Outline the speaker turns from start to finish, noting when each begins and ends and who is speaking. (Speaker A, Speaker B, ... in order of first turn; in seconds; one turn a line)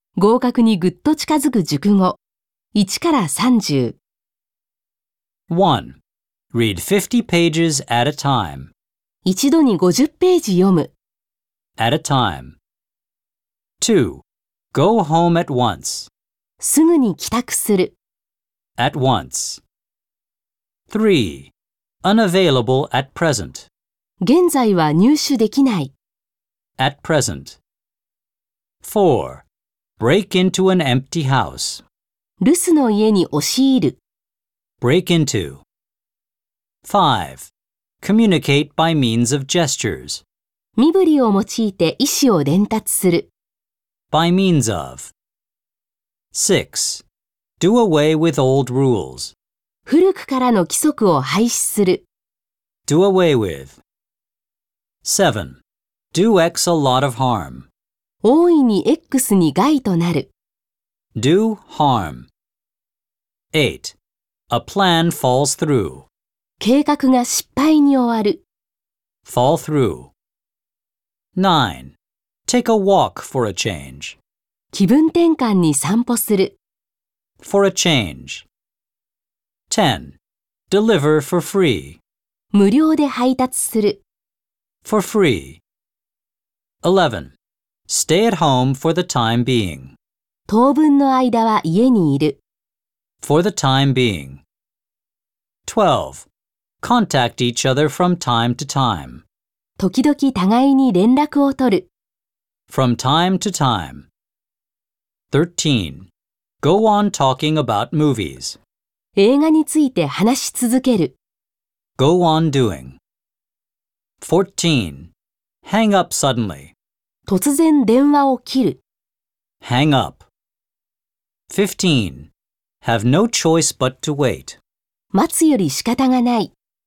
Speaker A: 0.2-2.2
Speaker A: 2.7-4.0
Speaker B: 5.5-6.0
Speaker B: 6.5-8.7
Speaker A: 9.2-10.9
Speaker B: 11.8-12.6
Speaker B: 13.8-16.1
Speaker A: 16.6-17.9
Speaker B: 18.8-19.6
Speaker B: 20.9-21.5
Speaker B: 22.0-23.7
Speaker A: 24.2-25.9
Speaker B: 26.8-27.6
Speaker B: 28.8-29.4
Speaker B: 30.0-31.8
Speaker A: 32.4-34.0
Speaker B: 34.8-35.6
Speaker B: 36.8-37.5
Speaker B: 38.0-40.2
Speaker A: 40.8-43.3
Speaker B: 44.1-45.1
Speaker B: 46.3-47.0
Speaker B: 47.6-49.3
Speaker A: 49.9-52.0
Speaker B: 52.9-53.8
Speaker B: 55.0-55.6
Speaker B: 56.1-57.7
Speaker A: 58.2-60.3
Speaker B: 61.1-62.3
Speaker B: 63.5-64.0
Speaker B: 64.5-66.1
Speaker A: 66.6-68.4
Speaker B: 69.2-70.1
Speaker B: 71.3-71.9
Speaker B: 72.5-74.2
Speaker A: 74.7-76.5
Speaker B: 77.4-78.5
Speaker B: 79.7-80.2
Speaker B: 80.7-82.0
Speaker A: 82.5-84.0
Speaker B: 84.8-85.6
Speaker B: 86.8-87.3
Speaker B: 87.9-90.0
Speaker A: 90.5-92.4
Speaker B: 93.2-94.4
Speaker B: 95.7-96.3
Speaker B: 96.8-99.2
Speaker A: 99.8-101.9
Speaker B: 102.7-104.1
Speaker B: 105.3-106.1
Speaker B: 106.6-108.6
Speaker A: 109.2-111.1
Speaker B: 112.0-113.0
Speaker B: 114.2-115.1
Speaker B: 115.6-116.7
Speaker A: 117.3-118.8
Speaker B: 119.6-120.3
Speaker B: 121.5-122.3
Speaker B: 122.8-124.6
Speaker A: 125.1-126.5